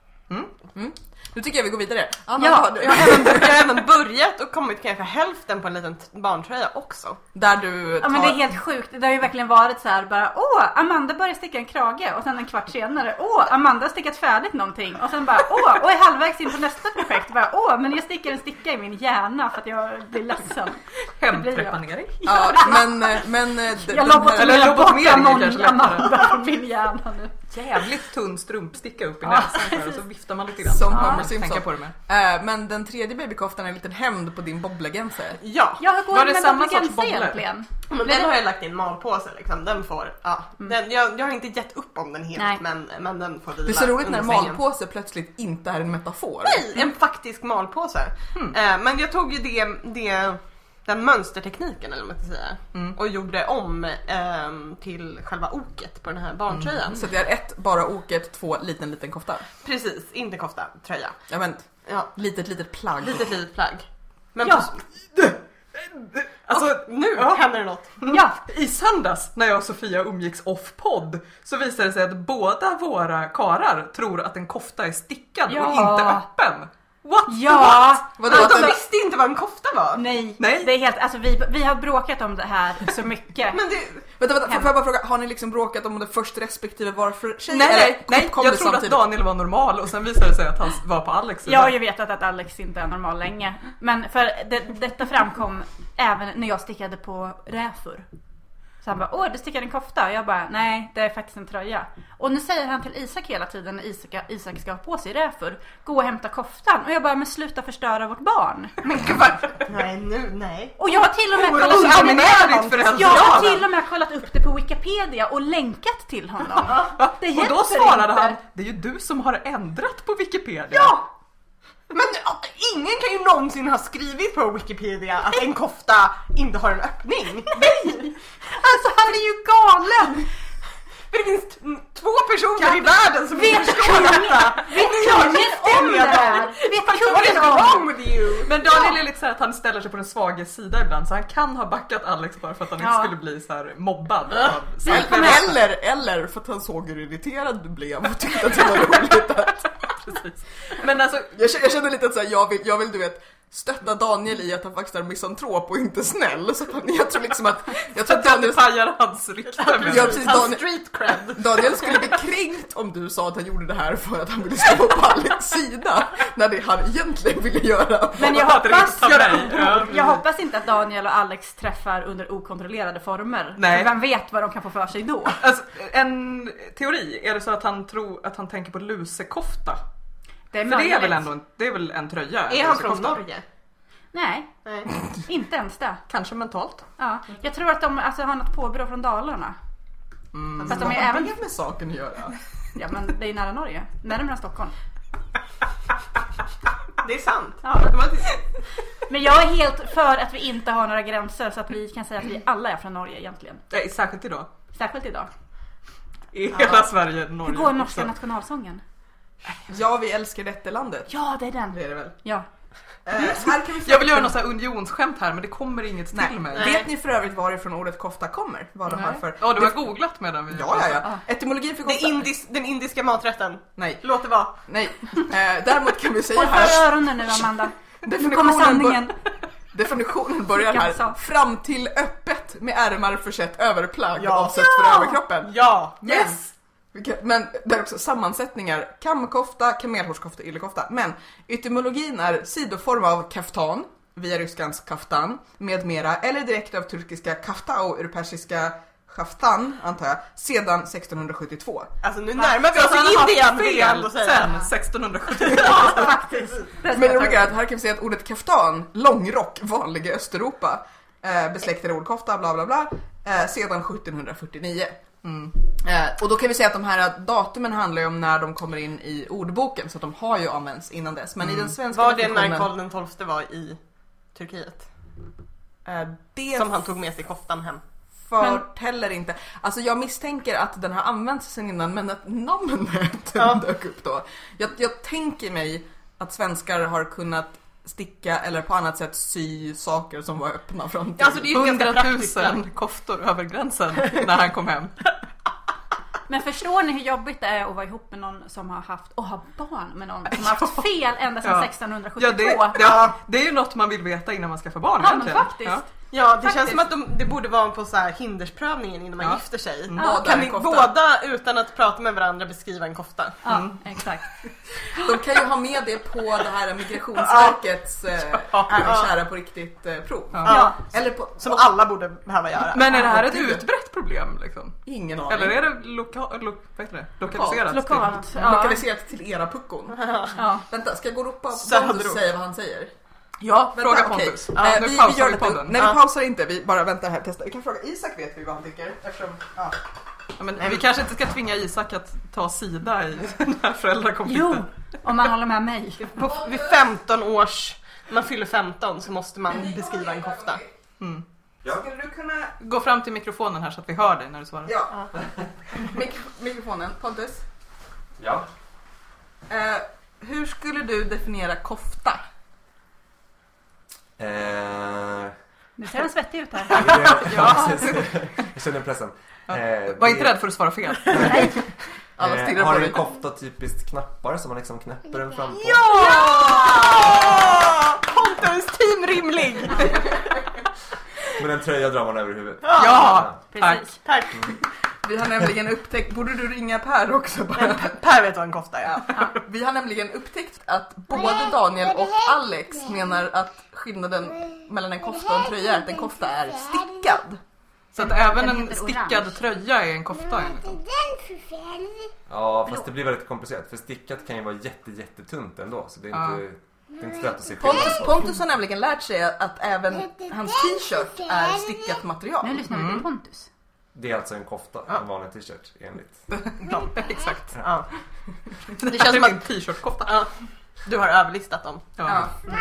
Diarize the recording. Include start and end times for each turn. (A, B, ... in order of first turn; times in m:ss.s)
0:00.7-0:03.6 A
0:02.4-0:03.4 B
0:02.8-0:07.2 C
0:07.3-0:08.5 A
0:08.0-0:27.4 B
0:21.2-0:22.2 D
0:22.2-0:24.8 A
0:24.3-0:26.2 D
0:27.5-0:31.9 D
0:29.3-0:30.0 B
0:30.7-0:35.4 A
0:30.9-0:31.3 B
0:35.4-0:35.8 C
0:35.8-0:38.3 B
0:36.1-0:37.4 D
0:37.9-0:44.6 C
0:42.4-0:42.6 B
0:43.6-0:46.7 A
0:46.4-0:57.0 C
0:56.5-0:56.8 D
0:56.9-0:59.5 A
0:59.6-1:01.2 C
1:01.3-1:03.3 A
1:03.0-1:04.8 C
1:05.2-1:18.0 D
1:06.5-1:07.9 C
1:08.1-1:08.4 B
1:15.5-1:16.3 B
1:17.3-1:18.8 B
1:18.2-1:18.8 A
1:18.2-1:20.0 C
1:19.9-1:23.6 B
1:20.4-1:20.7 D
1:23.5-1:24.0 C
1:24.1-1:29.1 A
1:24.5-1:24.7 B
1:27.5-1:31.8 D
1:31.4-1:38.1 B
1:38.8-1:49.4 B
1:48.9-1:49.6 D
1:49.7-1:50.8 C
1:50.8-1:58.4 B
1:51.3-1:53.6 D
1:51.6-1:53.6 C
1:56.7-1:56.9 C
1:57.0-2:01.0 D
2:00.7-2:01.0 B
2:01.9-2:08.1 C
2:07.5-2:07.9 B
2:08.4-2:10.3 B
2:11.1-2:18.5 C
2:12.6-2:12.9 D
2:13.3-2:17.9 B
2:18.4-2:25.6 D
2:22.8-2:23.2 B
2:24.8-2:30.0 A
2:24.9-2:25.4 B
2:30.0-2:31.3 D
2:31.3-2:38.8 A
2:37.9-2:40.5 D
2:39.6-2:42.1 C
2:39.8-2:40.7 A
2:41.3-2:48.5 A
2:48.2-2:55.4 B
2:48.2-2:50.2 D
2:53.6-2:53.9 D
2:55.4-2:59.8 D
3:00.5-3:01.3 B
3:00.6-3:03.2 D
3:02.5-3:03.4 C
3:04.1-3:04.5 B
3:04.6-3:04.9 C
3:05.1-3:06.0 B
3:06.1-3:06.8 D
3:07.0-3:09.6 B
3:10.3-3:10.9 D
3:10.6-3:11.0 C
3:10.7-3:12.4 A
3:10.7-3:11.3 B
3:12.8-3:14.8 B
3:17.0-3:18.4 C
3:17.6-3:18.0 B
3:19.1-3:23.6 B
3:23.7-3:24.5 D
3:24.7-3:25.3 B
3:26.3-3:28.1 D
3:27.4-3:28.8 B
3:29.6-3:31.1 A
3:31.1-3:32.5 B
3:31.7-3:32.2 A
3:33.1-3:34.4 A
3:33.2-3:36.8 D
3:36.1-3:39.9 A
3:36.6-3:36.9 C
3:38.9-3:41.1 D
3:40.5-3:42.3 A
3:41.8-3:44.5 C
3:43.8-3:44.0 A
3:44.6-3:47.4 A
3:46.3-3:49.2 B
3:48.0-3:49.2 A
3:49.7-3:56.4 A
3:50.6-3:51.2 B
3:54.2-3:56.3 C
3:54.7-3:55.2 B
3:56.9-4:11.9 A
4:12.0-4:14.7 C
4:12.4-4:16.2 D
4:15.4-4:16.8 C
4:16.7-4:17.4 B
4:16.9-4:25.0 A
4:25.2-4:25.6 D
4:25.8-4:32.7 A
4:31.4-4:31.7 D
4:31.9-4:33.8 C
4:34.3-4:34.9 C
4:35.8-4:36.8 A
4:36.6-4:37.8 C
4:38.3-4:51.6 A
4:43.4-4:43.6 C
4:51.2-4:52.6 C
4:51.5-4:55.1 D
4:56.3-5:03.0 B
5:00.3-5:00.8 D
5:01.4-5:05.8 D
5:05.0-5:05.9 B
5:06.1-5:13.4 C
5:06.4-5:06.8 B
5:09.2-5:10.0 D
5:10.0-5:11.0 A
5:13.4-5:14.3 B
5:13.5-5:13.8 D
5:14.9-5:21.7 A
5:17.2-5:17.6 C
5:18.3-5:18.9 D
5:18.8-5:19.1 C
5:20.3-5:20.6 D
5:20.5-5:20.8 C
5:20.5-5:20.8 B
5:21.4-5:22.8 C
5:22.7-5:28.2 D
5:22.9-5:23.7 A
5:24.9-5:25.6 A
5:27.3-5:32.9 A
5:27.6-5:28.8 B
5:30.0-5:30.4 C
5:30.4-5:30.6 B
5:31.5-5:32.2 C
5:33.4-5:35.8 D
5:33.6-5:39.8 A
5:34.6-5:34.8 C
5:40.4-5:44.7 D
5:44.2-5:46.3 B
5:46.1-5:50.6 C
5:49.5-5:50.7 A
5:51.6-5:52.6 A
5:52.6-5:54.8 D
5:54.7-5:55.1 A
5:55.7-5:57.4 A
5:58.2-5:58.5 E
5:59.5-6:02.2 A
6:04.2-6:05.3 E
6:05.8-6:07.5 B
6:06.7-6:10.4 E
6:07.2-6:08.1 D
6:09.5-6:11.6 D
6:11.1-6:11.5 E
6:11.2-6:11.6 B
6:12.2-6:13.0 A
6:12.2-6:16.1 E
6:15.6-6:20.3 C
6:21.4-6:23.4 E
6:22.6-6:23.3 C
6:22.8-6:23.9 D
6:23.5-6:24.0 B
6:24.0-6:24.5 C
6:25.0-6:28.0 A
6:27.6-6:29.3 C
6:28.9-6:37.4 A
6:37.9-6:40.8 D
6:38.0-6:39.4 B
6:42.3-6:48.2 E
6:46.1-6:46.4 D
6:47.6-6:52.7 A
6:52.4-6:53.5 B
6:52.7-6:53.1 D
6:54.0-6:56.2 E
6:56.4-6:57.5 D
6:56.7-6:57.0 C
6:57.6-6:57.9 C
6:58.8-7:00.3 D
6:58.9-6:59.4 C
7:00.0-7:00.3 C
7:00.8-7:02.0 C
7:02.0-7:02.3 D
7:02.1-7:02.3 A